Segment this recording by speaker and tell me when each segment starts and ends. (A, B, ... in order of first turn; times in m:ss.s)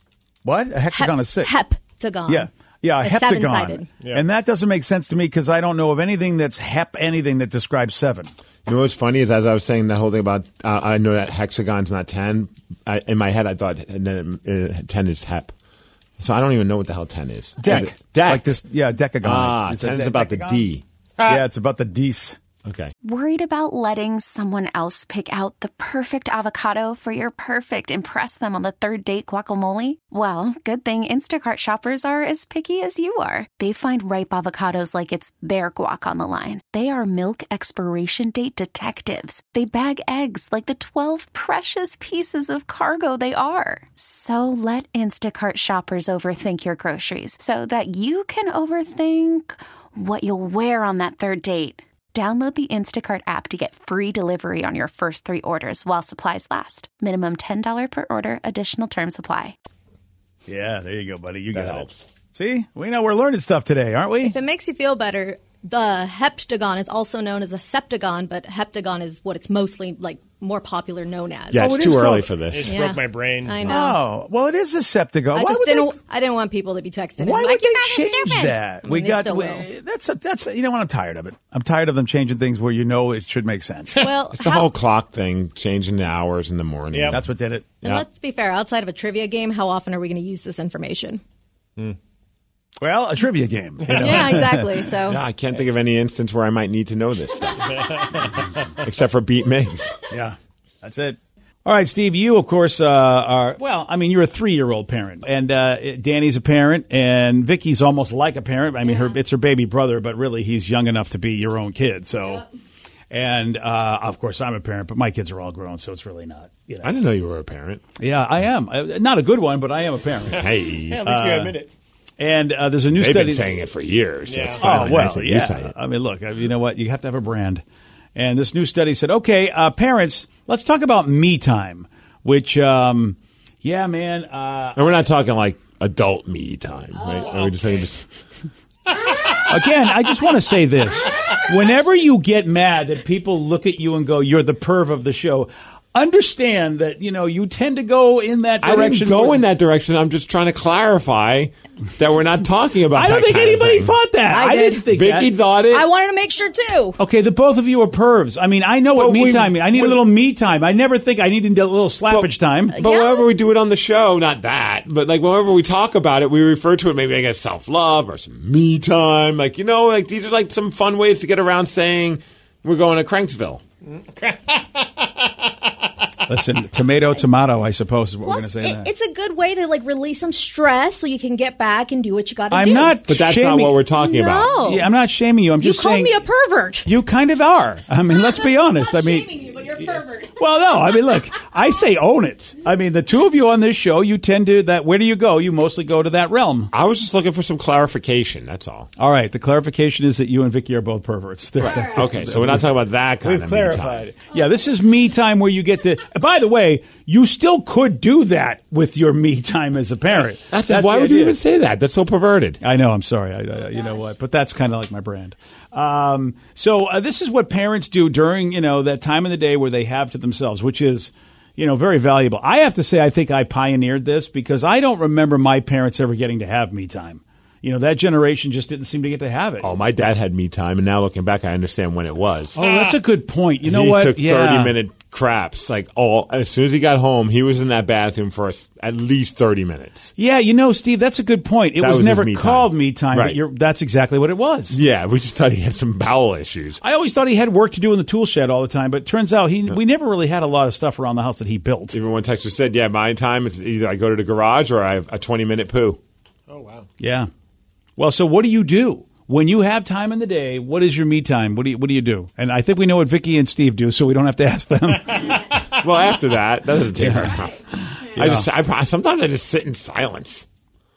0:00.4-0:01.5 A
0:00.9-0:03.9 B
0:02.3-0:08.3 A
0:08.7-0:15.5 C
0:16.2-0:18.6 C
0:17.6-0:20.7 A
0:19.2-0:20.8 C
0:21.2-0:22.4 A
0:22.6-0:22.9 C
0:23.0-0:59.6 D
1:00.5-1:04.4 A
1:01.5-1:02.0 C
1:04.2-1:11.8 B
1:11.5-1:12.8 C
1:11.5-1:12.5 A
1:12.5-1:13.8 E
1:12.6-1:14.0 B
1:13.7-1:16.0 A
1:15.3-1:19.7 B
1:17.2-1:24.0 A
1:24.0-1:24.7 B
1:24.3-1:27.2 C
1:26.9-1:27.2 E
1:27.1-1:27.8 A
1:27.8-1:31.2 B
1:32.8-1:34.9 A
1:33.9-1:35.2 B
1:35.0-1:40.0 C
1:40.1-1:52.4 A
1:48.8-1:49.1 B
1:53.1-1:56.9 A
1:56.8-1:57.8 C
1:58.0-2:01.6 A
2:00.3-2:01.1 C
2:00.9-2:01.7 E
2:02.2-2:03.5 A
2:02.9-2:05.7 C
2:04.2-2:04.6 E
2:04.5-2:07.6 A
2:08.2-2:14.8 A
2:14.8-2:18.1 C
2:19.4-2:29.4 A
2:28.6-2:34.0 C
2:32.9-2:35.3 A
2:34.2-2:35.0 B
2:34.9-2:35.8 C
2:35.6-2:37.0 B
2:37.0-2:42.8 A
2:38.9-2:40.0 C
2:42.1-2:53.6 C
2:42.7-2:43.3 B
2:56.2-2:58.9 A
2:58.2-3:03.0 B
3:02.5-3:03.9 A
3:03.0-3:04.6 C
3:03.9-3:04.9 B
3:04.6-3:06.2 A
3:05.6-3:06.9 B
3:06.9-3:16.7 A
3:08.1-3:11.2 B
3:16.7-3:18.9 C
3:19.0-3:22.7 A
3:21.6-3:24.1 C
3:23.2-3:31.4 A
3:30.5-3:32.6 C
3:32.6-3:49.7 A
3:49.6-3:53.0 C
3:52.6-3:54.8 A
3:53.6-4:00.1 C
4:00.2-4:04.8 A
4:01.8-4:03.4 C
4:04.7-4:06.8 C
4:06.8-4:12.0 A
4:11.9-4:16.0 C
4:16.5-4:16.9 E
4:17.0-4:17.3 A
4:18.0-4:25.6 A
4:25.5-4:30.5 C
4:26.9-4:28.5 A